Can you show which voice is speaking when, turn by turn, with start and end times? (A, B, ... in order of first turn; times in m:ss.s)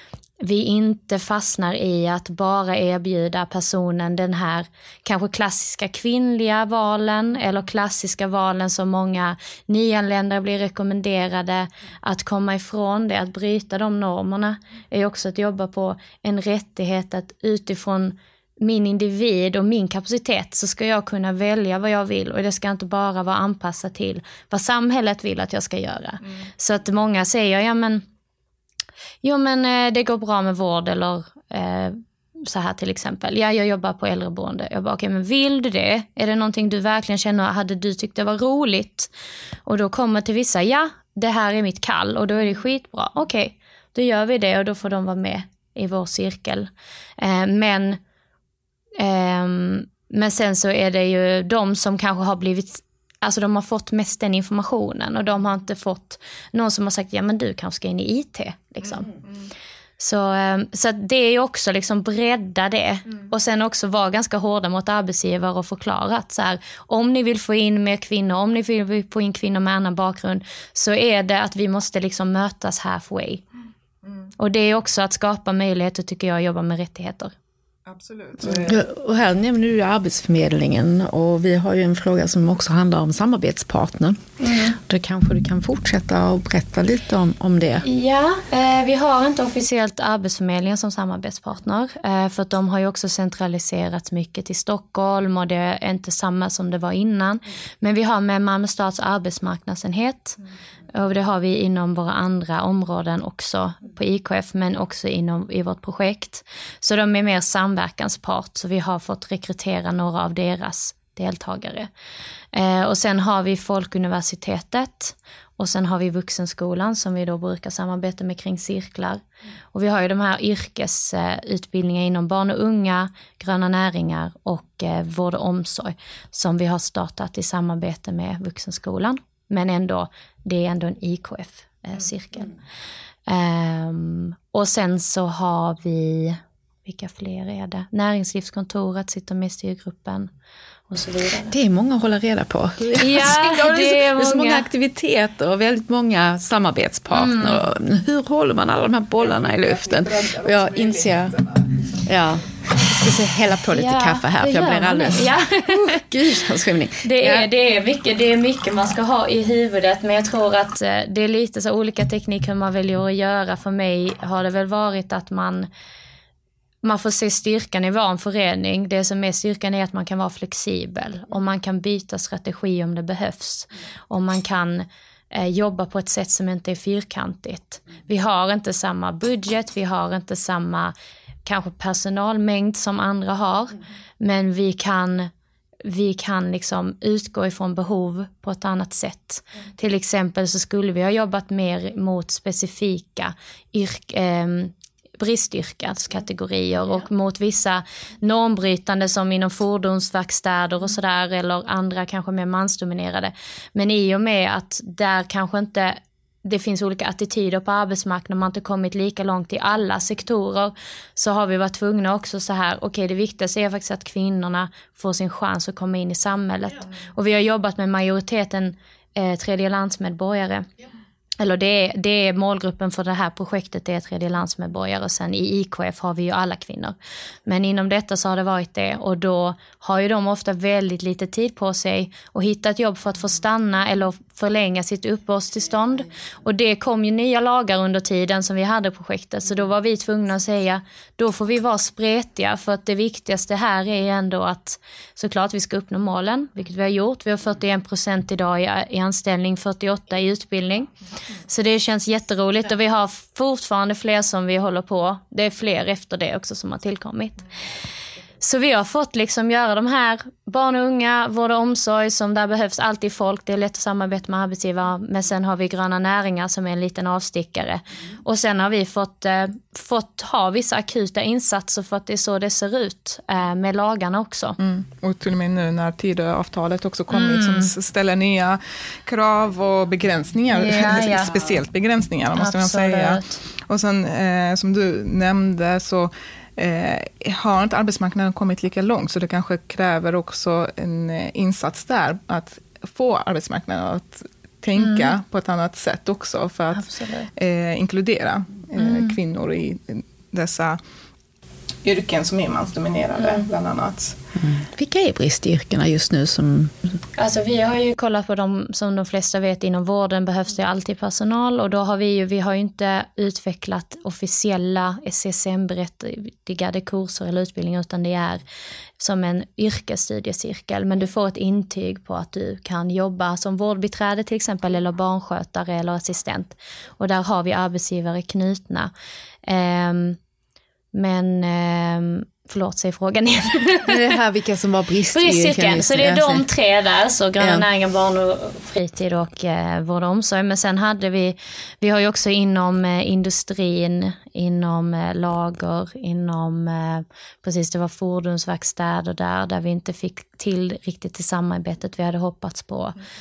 0:00.4-0:28.0 A
0:29.2-0:39.1 A
0:39.7-0:48.0 A
0:49.0-0:59.1 A
1:00.0-1:13.4 A
1:14.4-1:17.3 A
1:17.9-1:18.8 B
1:18.5-1:24.2 C
1:24.4-1:24.8 A
1:24.8-1:27.9 C
1:27.8-1:40.4 A
1:40.9-1:51.9 A
1:52.5-2:12.6 A
2:13.3-2:20.3 A
2:20.9-2:21.5 A
2:21.5-2:31.4 C
2:23.0-2:24.7 A
2:27.1-2:27.6 A
2:29.2-2:31.7 B
2:31.9-2:37.5 C
2:33.7-2:36.4 A
2:37.0-2:45.7 A
2:46.8-3:00.9 A
3:01.4-3:05.3 A
3:05.8-3:40.7 A
3:41.4-4:10.9 A
4:11.5-4:17.5 A
4:18.4-4:34.6 A
4:34.6-5:00.8 B
4:37.1-4:37.7 A
4:40.5-4:41.4 A
4:42.4-4:43.4 A
4:54.8-4:55.1 A
4:56.8-4:57.3 A
4:58.8-4:59.2 A
5:01.8-5:04.2 B
5:03.2-5:03.5 A
5:04.4-5:06.9 C
5:07.2-5:18.4 A
5:19.0-5:28.9 A
5:29.4-5:30.2 A
5:30.9-5:34.2 A
5:33.8-5:36.4 C
5:35.1-5:53.0 A
5:37.4-5:37.7 C